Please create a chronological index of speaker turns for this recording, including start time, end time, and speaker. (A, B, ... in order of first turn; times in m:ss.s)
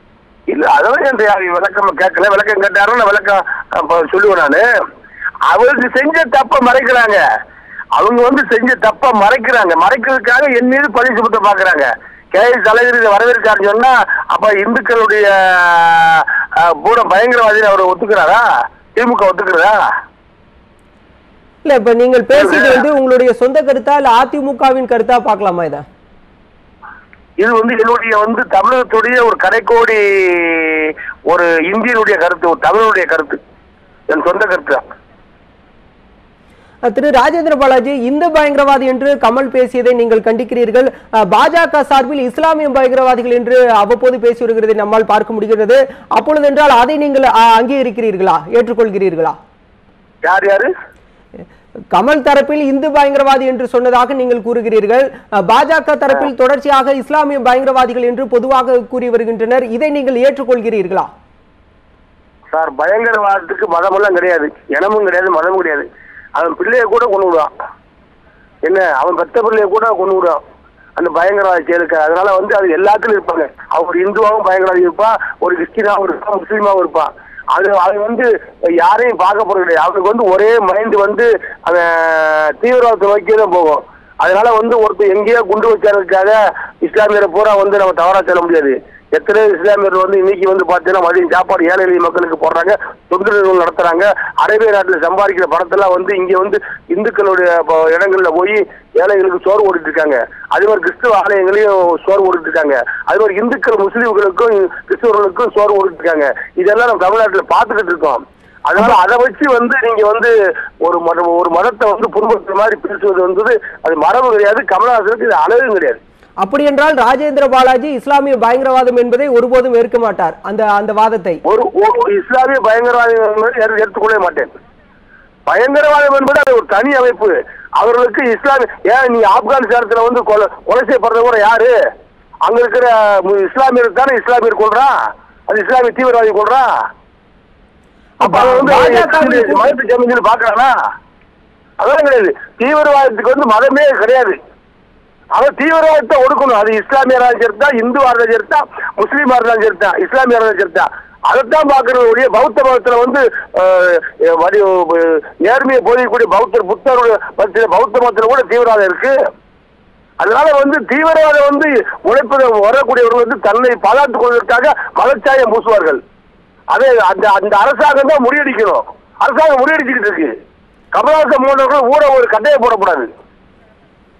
0:00.5-0:04.6 A
0:05.5-0:07.2 A
0:08.0-0:18.4 A
0:19.0-0:19.8 A
0:21.6-0:25.8 B
0:22.3-0:22.8 A
0:27.4-0:33.4 A
0:34.1-0:34.8 A
0:36.8-0:49.4 B
0:50.2-0:50.7 A
0:51.9-1:01.1 B
1:02.5-1:05.8 A
1:06.4-1:07.5 A
1:08.6-1:10.4 A
1:11.0-1:50.3 A
1:50.8-1:56.0 A
1:56.4-2:01.4 B
2:01.5-2:04.5 A
2:05.5-2:11.7 A
2:12.5-2:14.9 A
2:15.5-2:16.7 A
2:18.2-2:19.8 B
2:18.2-2:20.7 A
2:21.8-2:24.4 A
2:25.3-2:39.1 A
2:40.2-2:46.0 A
2:46.7-2:50.3 A
2:50.9-2:53.1 A